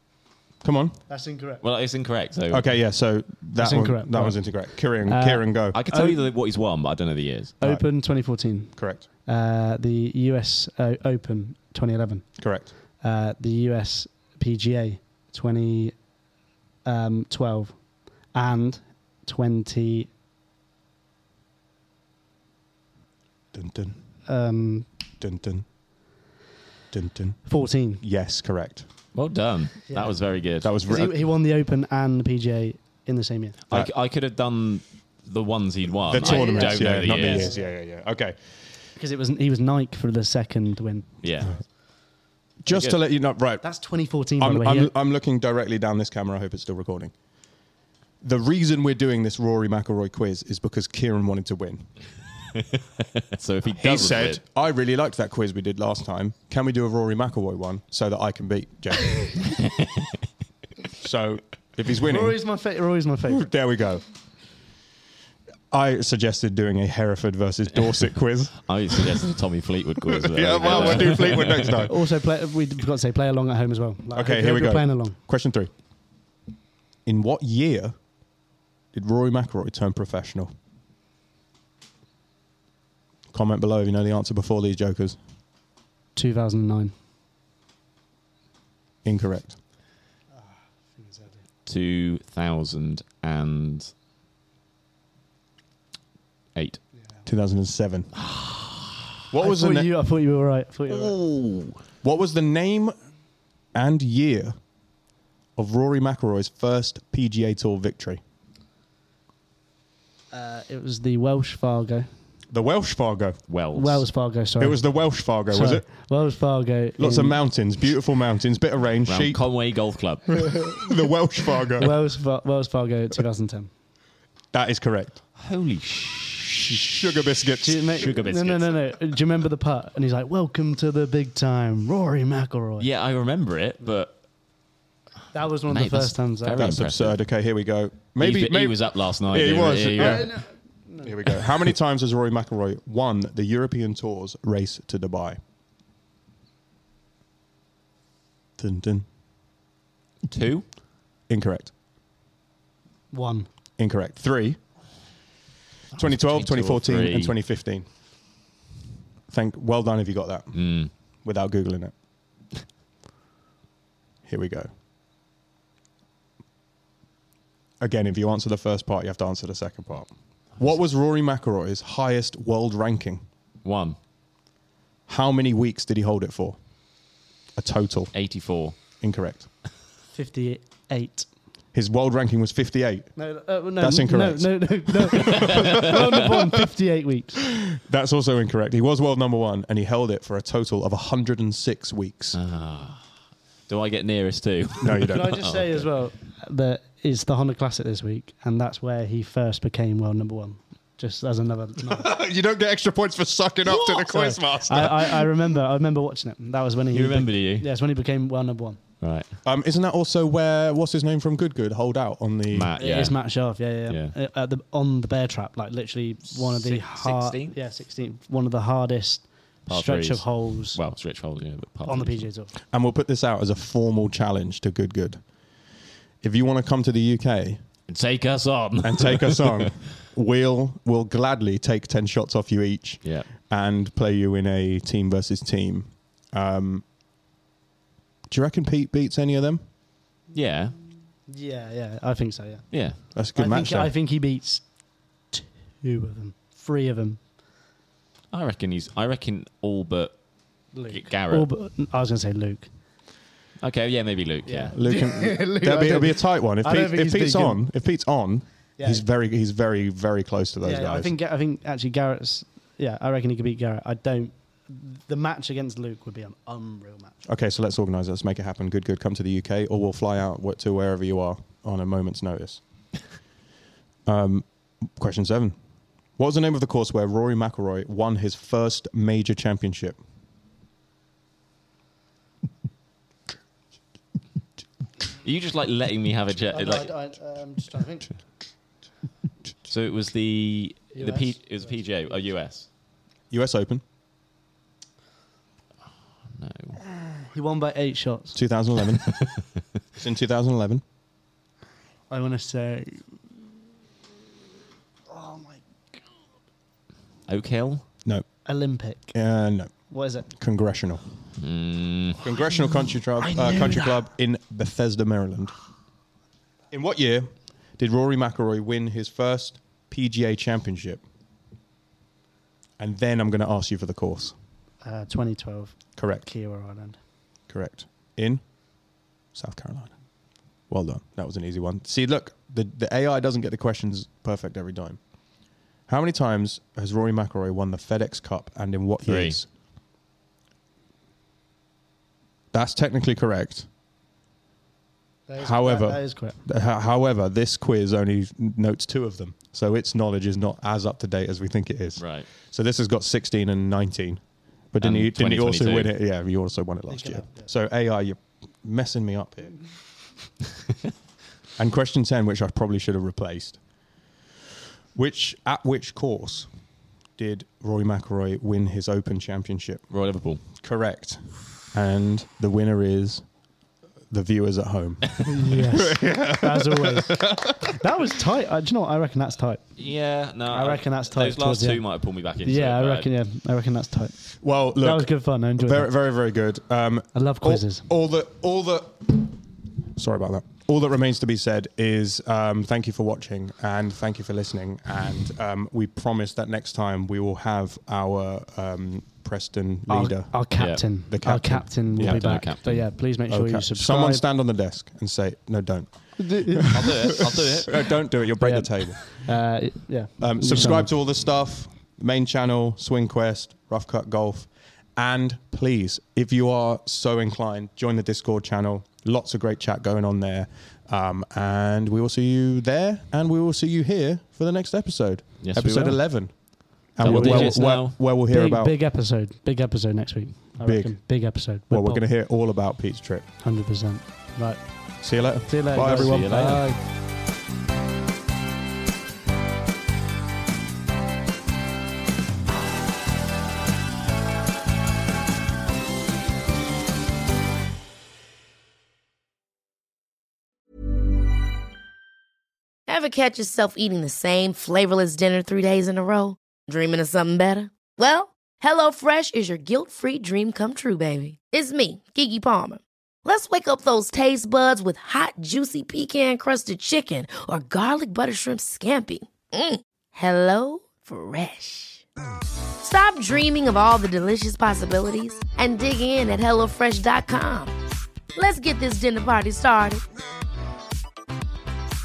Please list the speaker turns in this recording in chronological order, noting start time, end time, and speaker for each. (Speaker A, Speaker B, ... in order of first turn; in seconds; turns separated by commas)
Speaker A: 0.6-1.0, Speaker B: 1.1-1.6, Speaker C: 1.6-2.7, Speaker A: 2.5-5.8, Speaker B: 3.6-6.2, Speaker C: 5.7-7.5, Speaker B: 7.6-12.3, Speaker A: 8.7-9.1, Speaker A: 12.4-12.7, Speaker B: 13.0-16.0, Speaker B: 16.9-20.1, Speaker A: 23.5-24.0, Speaker B: 24.3-24.9, Speaker A: 25.2-25.7, Speaker A: 26.9-27.5, Speaker B: 27.5-28.0, Speaker A: 28.0-28.9, Speaker C: 29.1-30.8, Speaker B: 29.9-30.2, Speaker A: 30.6-31.1, Speaker B: 30.8-33.6, Speaker C: 33.7-37.5, Speaker A: 36.1-38.4, Speaker B: 36.2-37.7, Speaker B: 39.0-41.1, Speaker C: 41.2-41.5, Speaker A: 42.6-43.6, Speaker C: 42.7-43.0, Speaker B: 43.6-44.9, Speaker A: 44.2-47.1, Speaker A: 48.2-51.9, Speaker C: 52.7-54.4, Speaker A: 53.8-59.5, Speaker C: 59.6-60.1, Speaker A: 61.0-62.4, Speaker B: 62.1-63.5, Speaker A: 63.3-64.0, Speaker A: 65.7-69.2, Speaker C: 68.7-71.8, Speaker A: 70.1-71.9, Speaker B: 70.7-71.1, Speaker B: 71.7-75.2, Speaker A: 74.1-75.7, Speaker A: 77.0-78.0, Speaker A: 78.9-80.5, Speaker A: 83.3-85.2, Speaker B: 86.2-86.9, Speaker A: 89.0-89.6, Speaker B: 90.4-91.4, Speaker C: 91.7-93.9, Speaker C: 96.5-96.8, Speaker A: 97.3-98.1, Speaker C: 98.2-98.9, Speaker A: 99.3-99.9, Speaker B: 99.4-101.1, Speaker C: 100.9-101.8, Speaker A: 102.0-103.0, Speaker A: 103.7-104.6, Speaker A: 105.6-108.2, Speaker B: 110.3-112.1, Speaker A: 112.5-113.5, Speaker C: 113.5-114.1, Speaker B: 113.7-117.4, Speaker A: 114.6-115.9, Speaker A: 117.0-119.5, Speaker C: 119.1-120.5, Speaker A: 120.7-122.0, Speaker B: 121.8-123.7, Speaker A: 124.5-125.2, Speaker C: 125.4-126.9, Speaker A: 126.8-128.0, Speaker B: 127.6-132.9, Speaker C: 128.0-128.8, Speaker C: 132.8-134.2, Speaker B: 135.3-136.6, Speaker C: 135.7-137.2, Speaker A: 136.6-140.4, Speaker C: 138.2-140.3, Speaker B: 140.0-141.1, Speaker A: 141.0-145.4, Speaker A: 148.6-149.1, Speaker C: 150.3-150.7, Speaker A: 151.3-151.7, Speaker B: 153.1-153.5, Speaker A: 153.8-154.6, Speaker A: 156.0-157.9, Speaker C: 156.0-157.3, Speaker A: 159.3-160.7, Speaker C: 160.5-160.9, Speaker A: 161.2-161.9, Speaker A: 164.3-164.7, Speaker A: 167.8-173.3, Speaker C: 173.6-174.0, Speaker A: 175.1-176.6, Speaker A: 177.6-178.1, Speaker C: 178.1-178.8, Speaker A: 179.0-179.5, Speaker B: 180.1-181.3, Speaker A: 181.7-183.2, Speaker B: 183.2-187.4, Speaker A: 183.8-186.4, Speaker C: 185.2-185.9, Speaker A: 187.5-192.4, Speaker C: 192.3-193.0, Speaker C: 193.7-195.9, Speaker A: 194.8-195.3, Speaker B: 195.1-202.1, Speaker A: 201.8-205.3, Speaker B: 203.7-208.8, Speaker C: 206.9-207.7, Speaker C: 209.0-209.3, Speaker A: 209.4-212.7, Speaker C: 212.5-214.2, Speaker B: 212.8-220.8, Speaker C: 216.3-217.6, Speaker C: 219.7-222.3, Speaker B: 221.9-222.5, Speaker A: 222.7-225.2, Speaker A: 226.2-227.6, Speaker C: 227.9-229.7, Speaker A: 228.8-236.8, Speaker C: 233.0-233.3, Speaker A: 238.3-239.6, Speaker C: 240.3-240.8, Speaker B: 241.3-244.7, Speaker C: 242.7-243.0, Speaker A: 243.1-243.9, Speaker B: 245.3-247.2, Speaker C: 248.3-250.2, Speaker B: 250.7-252.7, Speaker C: 250.9-251.5, Speaker C: 253.6-254.8, Speaker B: 254.5-257.6, Speaker A: 254.7-261.1, Speaker B: 258.8-259.0, Speaker B: 260.6-267.2, Speaker A: 267.2-272.6, Speaker A: 274.1-275.6, Speaker A: 276.2-280.0, Speaker C: 285.2-286.9, Speaker B: 286.5-288.1, Speaker C: 289.7-292.7, Speaker B: 290.9-291.3, Speaker A: 293.3-293.8, Speaker C: 296.3-296.8, Speaker B: 297.2-298.4, Speaker A: 298.3-299.1, Speaker A: 299.9-300.8, Speaker B: 302.1-303.1, Speaker B: 305.1-306.0, Speaker C: 307.3-307.9, Speaker B: 308.5-309.1, Speaker A: 309.1-311.1, Speaker B: 309.9-310.3, Speaker C: 311.4-312.2, Speaker A: 312.2-315.5, Speaker B: 313.2-314.1, Speaker A: 316.7-321.0, Speaker A: 322.8-324.4, Speaker B: 324.8-327.0, Speaker A: 326.0-326.3, Speaker A: 327.5-328.4, Speaker A: 329.3-330.0, Speaker A: 330.7-335.0, Speaker A: 335.9-339.5, Speaker C: 339.1-339.4, Speaker A: 342.5-343.7, Speaker B: 345.3-346.4, Speaker A: 345.4-359.6, Speaker C: 352.0-352.3, Speaker C: 354.8-355.9, Speaker B: 356.9-357.5, Speaker A: 361.6-363.6, Speaker A: 364.9-366.5, Speaker A: 367.2-369.9, Speaker C: 369.9-370.4, Speaker A: 370.5-373.2, Speaker A: 374.1-377.6, Speaker B: 375.2-379.6, Speaker C: 379.8-383.1, Speaker B: 380.5-381.8, Speaker B: 382.4-384.2, Speaker A: 384.4-389.4, Speaker B: 384.8-385.9, Speaker B: 387.1-387.9, Speaker A: 389.9-402.4, Speaker B: 399.9-404.2, Speaker C: 400.6-400.9, Speaker C: 401.9-402.9, Speaker A: 403.3-409.2, Speaker B: 406.2-406.9, Speaker C: 406.7-407.9, Speaker B: 408.4-410.9, Speaker A: 410.2-428.8, Speaker C: 425.4-426.2, Speaker C: 427.0-428.0, Speaker B: 427.0-432.0, Speaker A: 430.6-433.3, Speaker B: 433.4-436.8, Speaker A: 435.0-436.6, Speaker C: 435.8-436.6, Speaker D: 452.9-472.0, Speaker D: 472.8-477.8, Speaker D: 478.4-480.0